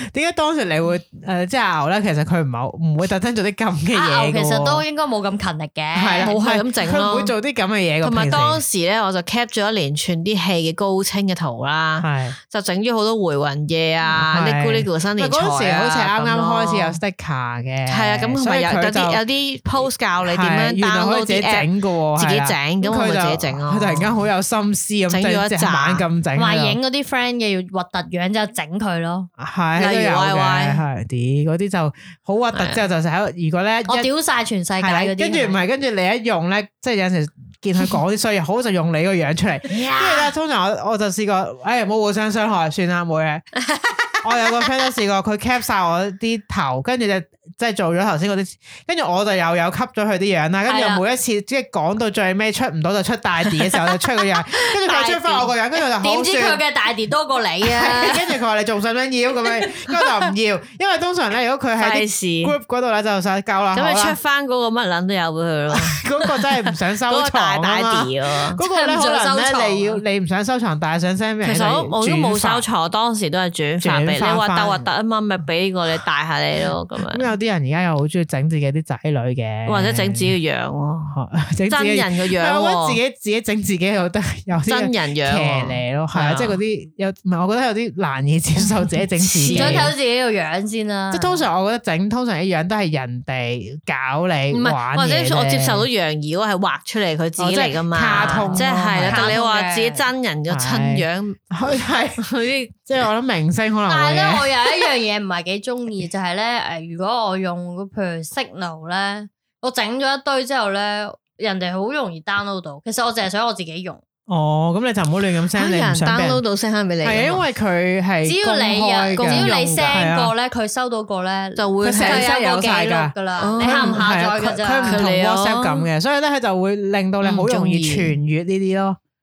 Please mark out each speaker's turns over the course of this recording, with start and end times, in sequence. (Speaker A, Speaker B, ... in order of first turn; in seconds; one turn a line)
Speaker A: 0.1-4.8
Speaker B: 3.9-6.3
Speaker A: 5.9-8.6
Speaker C: 6.2-7.3
Speaker C: 8.0-17.0
Speaker A: 12.0-12.4
Speaker A: 14.0-19.2
Speaker C: 17.9-24.2
Speaker A: 19.8-26.8
Speaker C: 25.1-26.1
Speaker B: 26.4-29.3
Speaker A: 29.4-34.1
Speaker C: 29.8-30.8
Speaker C: 32.5-32.8
Speaker B: 33.9-35.6
Speaker A: 34.8-43.5
Speaker C: 39.7-40.3
Speaker C: 43.7-44.7
Speaker A: 44.2-56.6
Speaker B: 50.7-51.0
Speaker C: 54.9-55.2
Speaker B: 55.0-55.5
Speaker B: 56.0-58.3
Speaker A: 57.6-64.2
Speaker C: 59.7-60.1
Speaker C: 61.8-62.6
Speaker C: 63.7-66.3
Speaker A: 65.7-72.7
Speaker C: 67.1-68.6
Speaker B: 68.7-70.0
Speaker C: 71.4-77.3
Speaker A: 73.8-74.9
Speaker A: 77.1-80.3
Speaker C: 79.7-81.2
Speaker A: 81.1-89.9
Speaker C: 81.7-83.0
Speaker C: 84.7-86.6
Speaker C: 89.2-89.9
Speaker B: 89.5-91.5
Speaker A: 91.1-95.9
Speaker C: 94.5-101.4
Speaker A: 97.4-99.3
Speaker B: 98.1-100.0
Speaker A: 100.5-102.2
Speaker C: 102.2-102.9
Speaker A: 102.9-104.5
Speaker B: 103.9-114.0
Speaker A: 114.3-116.4
Speaker C: 115.6-117.4
Speaker A: 117.0-120.3
Speaker B: 118.2-125.0
Speaker C: 119.1-120.0
Speaker C: 121.6-122.3
Speaker A: 121.8-129.0
Speaker C: 123.4-124.1
Speaker C: 124.8-125.9
Speaker C: 127.2-128.2